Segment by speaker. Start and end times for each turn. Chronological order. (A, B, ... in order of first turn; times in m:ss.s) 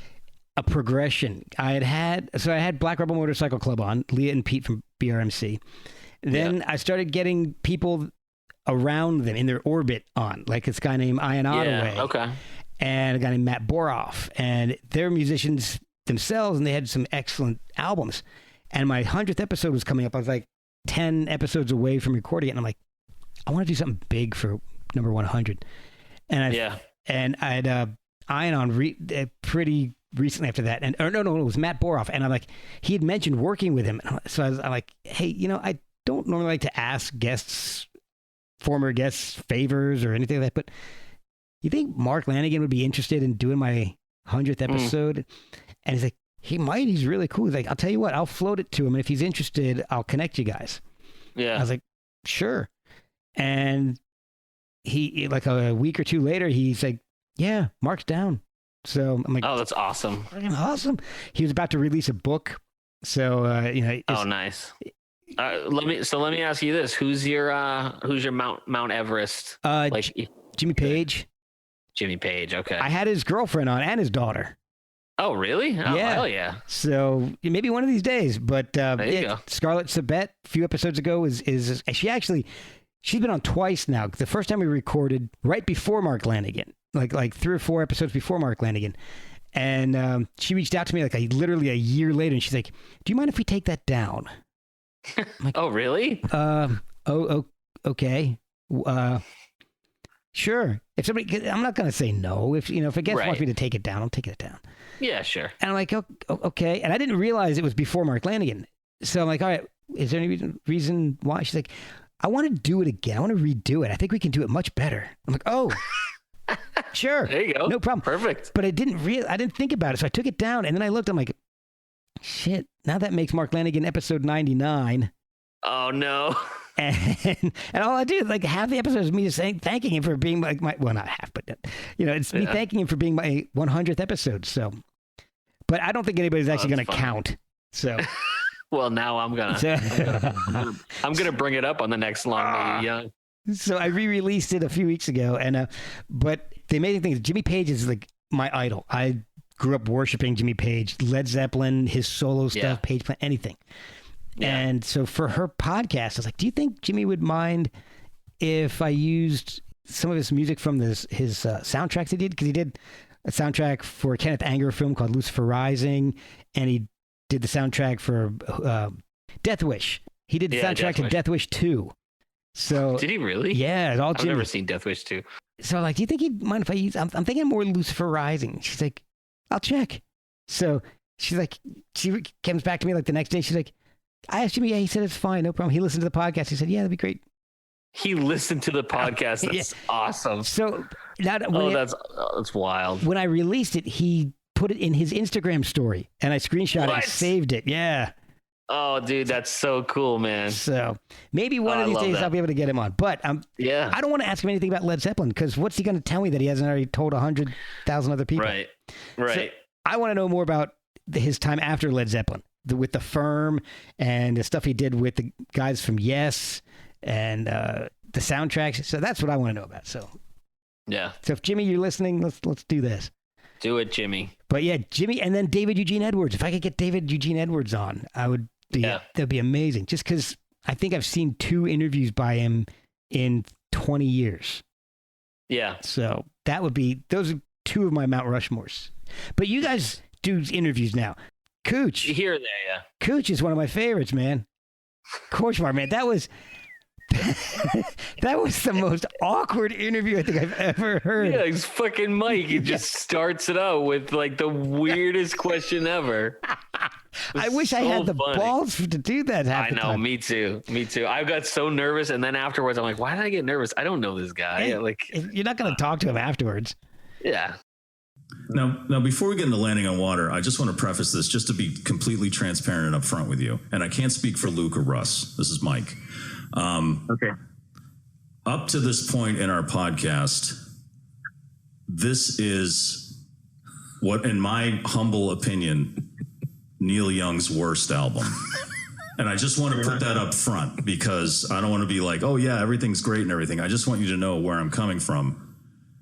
0:00.6-0:05.6 A
0:06.2-0:08.1 A
0:08.7-0:12.1 A
0:11.5-0:12.4 B
0:12.8-0:22.8 A
0:23.5-0:25.6 A
0:26.3-0:37.9 A
0:26.5-0:26.8 B
0:38.6-0:40.7 A
0:41.6-0:45.3 A
0:45.9-0:50.8 A
0:51.4-0:51.7 B
0:51.6-0:52.7 A
0:53.4-0:54.0 A
0:54.8-0:59.6 A
0:59.4-1:00.3 B
1:00.3-1:04.3 A
1:04.1-1:04.7 B
1:05.4-1:10.3 B
1:09.6-1:11.3 A
1:12.0-1:12.9 B
1:12.8-1:14.6 A
1:15.2-1:16.6 B
1:15.8-1:22.5 A
1:19.0-1:19.4 B
1:23.0-1:29.0 A
1:29.6-1:34.3 A
1:35.2-1:36.3 B
1:36.3-1:39.2 A
1:40.3-1:44.6 A
1:43.1-1:43.4 B
1:45.0-1:45.5 B
1:45.6-1:55.8 A
1:56.9-2:01.4 A
1:57.3-1:58.5 B
2:02.2-2:05.1 A
2:05.6-2:06.4 B
2:06.8-2:14.8 A
2:15.7-2:18.1 A
2:16.5-2:17.1 B
2:18.7-2:23.1 B
2:19.5-2:20.7 A
2:22.4-2:22.9 A
2:23.5-2:33.6 A
2:32.5-2:32.8 B
2:34.4-2:37.7 A
2:38.4-2:42.8 A
2:43.3-2:51.9 A
2:50.5-2:51.2 B
2:52.6-2:54.5 A
2:52.9-2:53.6 B
2:54.1-2:55.2 B
2:55.6-3:03.7 A
3:04.3-3:07.2 A
3:08.0-3:10.5 B
3:09.0-3:09.7 A
3:10.4-3:11.8 A
3:11.5-3:13.0 B
3:13.0-3:18.1 A
3:16.7-3:17.3 B
3:18.7-3:20.6 B
3:20.5-3:28.6 A
3:21.6-3:22.3 B
3:23.6-3:24.0 B
3:28.4-3:29.5 B
3:29.3-3:40.1 A
3:40.9-3:41.2 B
3:41.2-3:43.1 A
3:43.6-3:44.3 B
3:44.5-3:54.6 A
3:55.5-3:55.8 B
3:55.8-4:02.1 A
4:02.0-4:02.8 B
4:03.0-4:04.4 A
4:05.3-4:06.3 A
4:07.1-4:11.4 A
4:11.2-4:16.4 B
4:12.4-4:12.8 A
4:16.8-4:20.0 A
4:17.4-4:18.6 B
4:19.5-4:25.2 B
4:24.6-4:26.8 A
4:27.2-4:27.6 B
4:28.5-4:36.0 C
4:36.5-4:37.2 C
4:38.5-4:40.6 C
4:41.9-4:43.2 C
4:44.0-4:46.0 C
4:46.8-4:48.4 C
4:49.2-4:55.6 C